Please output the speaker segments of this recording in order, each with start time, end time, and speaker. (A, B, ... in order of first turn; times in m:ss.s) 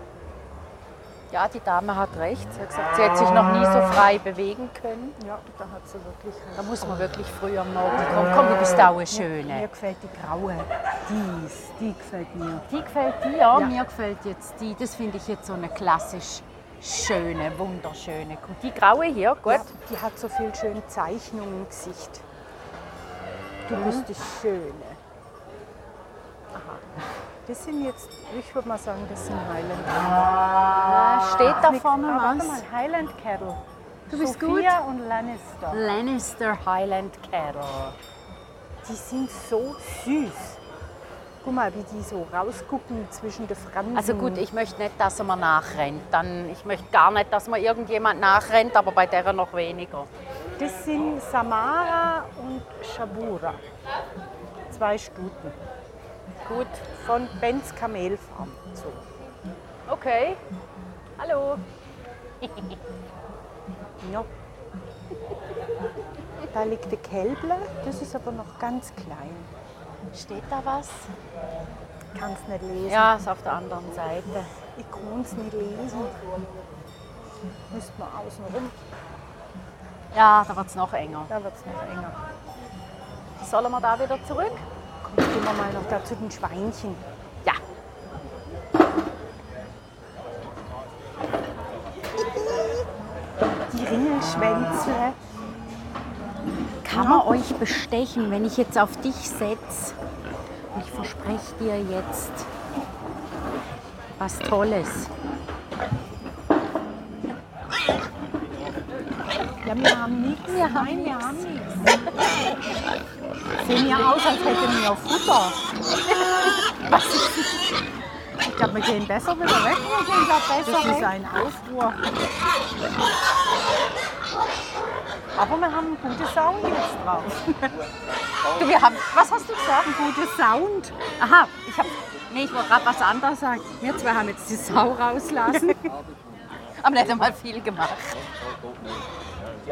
0:01.3-0:05.2 A
0:05.2-0:07.1 B
0:06.6-0:09.7 A
0:09.1-0:12.6 B
0:12.7-0:19.7 A
0:19.5-0:22.2 B
0:23.7-0:25.0 B
0:23.7-0:24.0 A
0:26.5-0:30.4 B
0:30.8-0:32.6 A
0:31.4-0:35.9 B
0:34.1-0:34.8 A
0:35.7-0:38.0 A
0:38.8-0:40.6 B
0:41.4-0:44.4 B
0:44.0-0:50.1 A
0:50.6-0:53.6 B
0:54.7-0:55.6 B
0:56.5-0:56.9 A
0:56.9-0:59.1 B
0:59.9-1:00.4 A
1:01.2-1:01.6 A
1:02.4-1:02.8 A
1:04.0-1:04.3 B
1:06.5-1:09.5 B
1:10.1-1:11.1 A
1:12.2-1:13.2 B
1:12.9-1:14.5 A
1:14.8-1:16.2 B
1:17.7-1:18.7 B
1:20.1-1:21.3 A
1:21.3-1:22.2 B
1:23.4-1:24.6 A
1:25.0-1:27.0 B
1:33.7-1:35.2 B
1:36.8-1:40.0 A
1:36.9-1:37.2 B
1:40.7-1:42.5 A
1:44.2-1:45.1 A
1:49.6-1:51.7 B
1:50.5-1:51.8 A
1:53.6-1:55.6 B
1:56.1-1:57.7 A
1:58.4-2:02.0 B
2:00.7-2:01.1 A
2:05.4-2:07.7 B
2:08.6-2:09.9 A
2:09.8-2:11.0 B
2:11.2-2:15.8 A
2:15.5-2:15.8 B
2:16.8-2:18.2 A